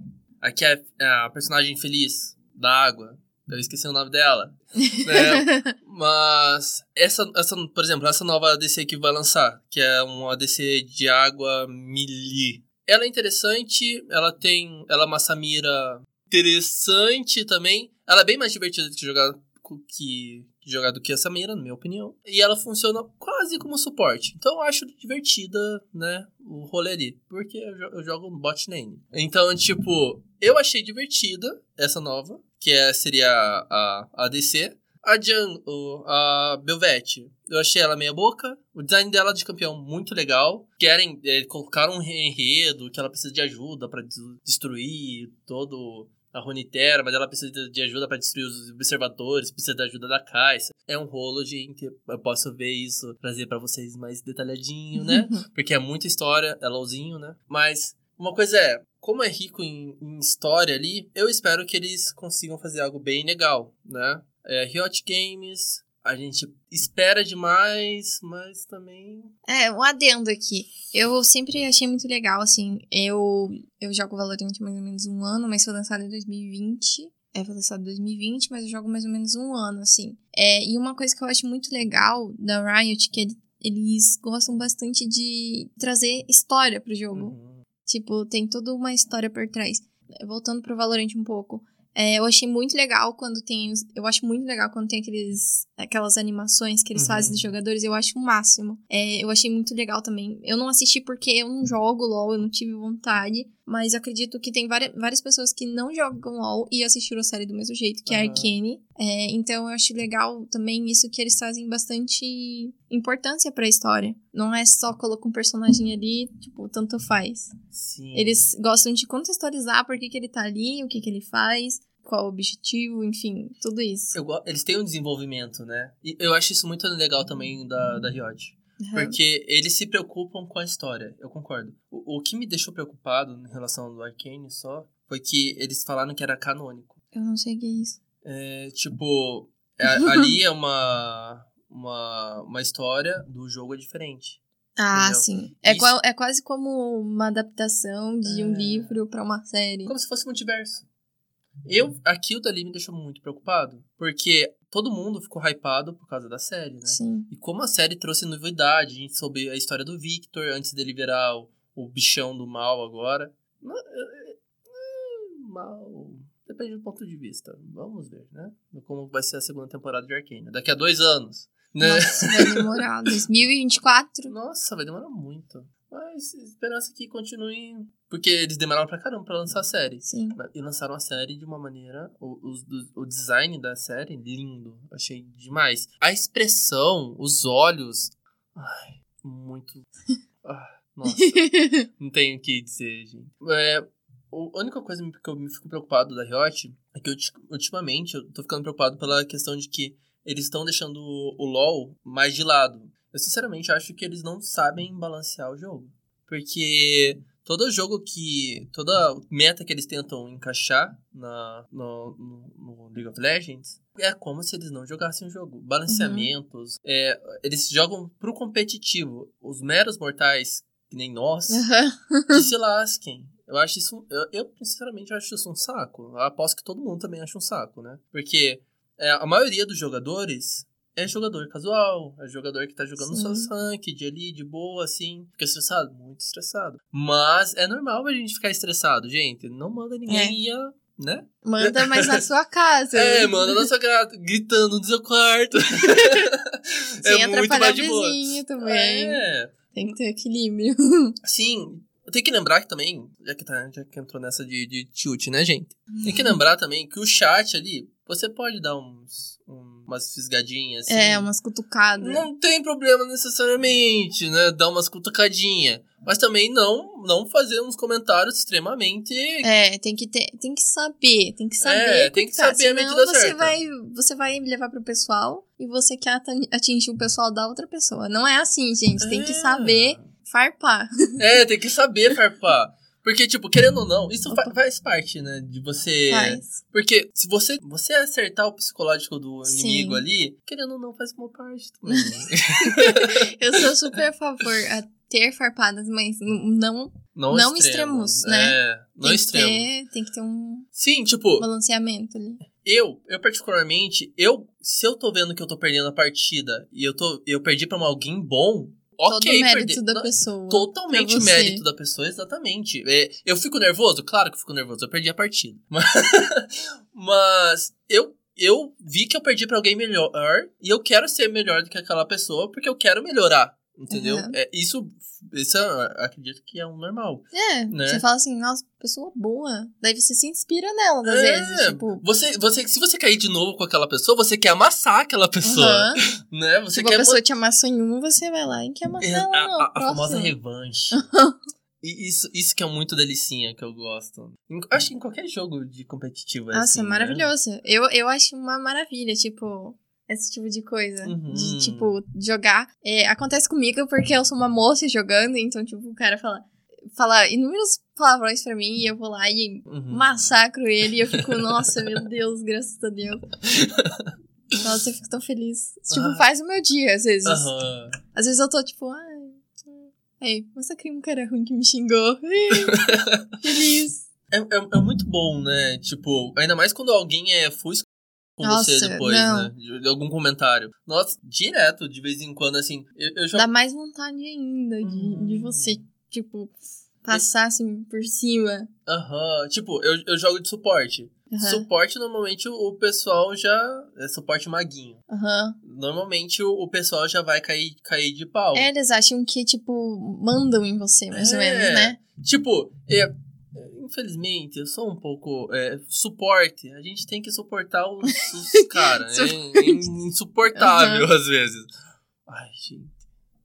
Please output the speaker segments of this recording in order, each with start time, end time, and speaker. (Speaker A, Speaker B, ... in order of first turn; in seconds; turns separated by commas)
Speaker A: 0.4-69.3, Speaker B: 4.8-5.7, Speaker B: 55.0-55.4, Speaker B: 69.5-117.5, Speaker A: 87.1-87.7, Speaker A: 97.0-97.5, Speaker A: 108.1-108.5, Speaker A: 117.7-118.5, Speaker B: 118.1-124.2, Speaker A: 124.1-137.0, Speaker B: 128.8-129.2, Speaker B: 137.1-138.0, Speaker A: 138.2-144.4, Speaker B: 139.9-140.3, Speaker B: 144.8-149.9, Speaker A: 144.9-145.9, Speaker A: 148.2-149.0, Speaker A: 149.9-150.9, Speaker A: 151.7-172.8, Speaker B: 156.9-157.3, Speaker B: 171.8-174.3, Speaker A: 174.3-189.9, Speaker B: 180.1-180.4, Speaker A: 190.4-221.6, Speaker B: 191.1-191.9, Speaker B: 215.9-216.3, Speaker B: 221.5-222.5, Speaker A: 222.3-242.2, Speaker B: 233.0-233.5, Speaker B: 240.1-240.4, Speaker B: 241.4-243.7, Speaker A: 242.9-249.6, Speaker B: 245.8-246.3, Speaker B: 247.0-251.2, Speaker A: 251.2-261.3, Speaker B: 255.9-256.4, Speaker B: 260.9-262.2, Speaker A: 262.0-269.5, Speaker B: 269.4-281.2, Speaker A: 271.6-273.6, Speaker A: 279.0-280.1, Speaker A: 281.2-293.6, Speaker B: 286.1-286.6, Speaker B: 289.5-290.0, Speaker B: 292.6-300.7, Speaker A: 297.1-299.7, Speaker A: 300.8-301.5, Speaker B: 301.4-302.4, Speaker A: 302.6-328.0, Speaker B: 309.1-311.6, Speaker B: 323.9-324.4, Speaker B: 327.3-332.0, Speaker A: 331.1-337.2, Speaker B: 335.4-336.0, Speaker B: 336.7-340.3, Speaker A: 339.0-341.0, Speaker B: 340.9-341.4, Speaker A: 341.8-347.3, Speaker B: 346.5-363.2, Speaker A: 351.0-351.9, Speaker A: 359.7-360.3, Speaker A: 363.5-364.1, Speaker B: 364.6-367.5, Speaker A: 365.9-366.2, Speaker A: 367.2-368.0, Speaker B: 368.1-372.8, Speaker A: 372.6-373.3, Speaker B: 373.4-374.1, Speaker A: 374.3-383.5, Speaker B: 378.4-379.5, Speaker B: 383.3-388.7, Speaker A: 384.8-385.8, Speaker A: 388.9-395.0, Speaker B: 391.3-391.7, Speaker B: 395.1-395.6, Speaker A: 395.6-398.7, Speaker B: 398.5-402.0, Speaker A: 401.1-411.7, Speaker B: 408.6-409.8, Speaker B: 410.5-411.1, Speaker A: 412.3-413.0